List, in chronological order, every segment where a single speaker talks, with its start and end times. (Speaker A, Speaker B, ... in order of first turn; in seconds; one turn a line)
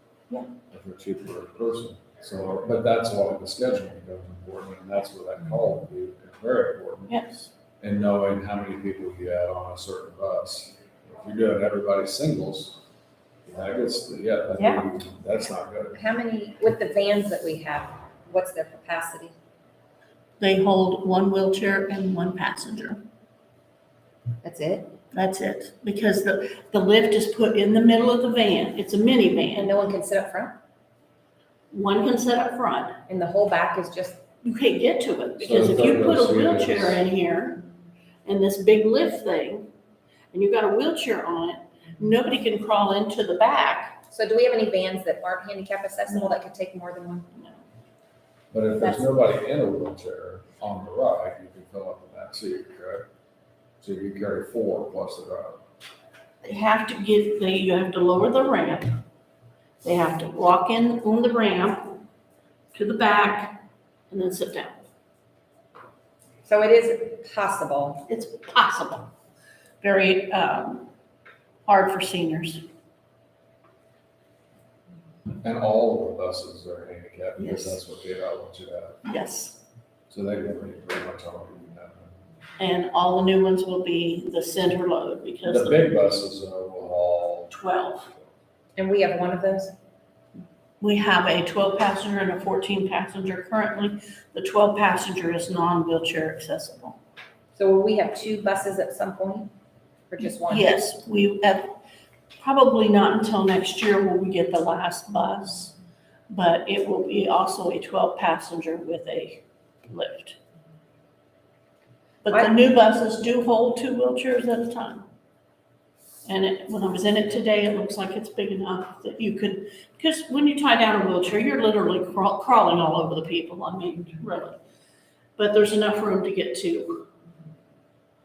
Speaker A: 0.7-12.8
Speaker B: 7.1-7.5
Speaker A: 13.4-16.0
Speaker C: 15.9-19.3
Speaker B: 20.4-23.0
Speaker C: 24.4-24.9
Speaker B: 25.1-29.7
Speaker C: 29.5-30.6
Speaker B: 31.7-33.0
Speaker C: 33.1-34.2
Speaker B: 34.4-37.7
Speaker A: 35.4-37.0
Speaker C: 35.4-35.8
Speaker B: 38.2-39.7
Speaker B: 40.3-44.0
Speaker C: 44.1-47.3
Speaker B: 47.3-47.6
Speaker A: 48.5-53.0
Speaker C: 48.8-49.1
Speaker A: 53.8-55.6
Speaker B: 56.4-59.0
Speaker B: 59.8-62.0
Speaker B: 62.7-64.8
Speaker C: 66.4-68.0
Speaker B: 68.1-69.1
Speaker B: 69.8-70.9
Speaker B: 71.7-72.6
Speaker A: 75.4-79.0
Speaker B: 77.4-77.8
Speaker B: 79.0-79.6
Speaker A: 80.1-82.2
Speaker B: 82.6-85.9
Speaker A: 85.4-87.6
Speaker B: 87.5-88.1
Speaker C: 88.8-89.7
Speaker B: 90.8-97.0
Speaker C: 97.5-99.5
Speaker C: 100.1-100.8
Speaker B: 100.4-101.8
Speaker B: 102.4-105.7
Speaker B: 106.3-110.4
Speaker B: 112.2-115.0
Speaker B: 116.2-124.6
Speaker B: 125.4-127.1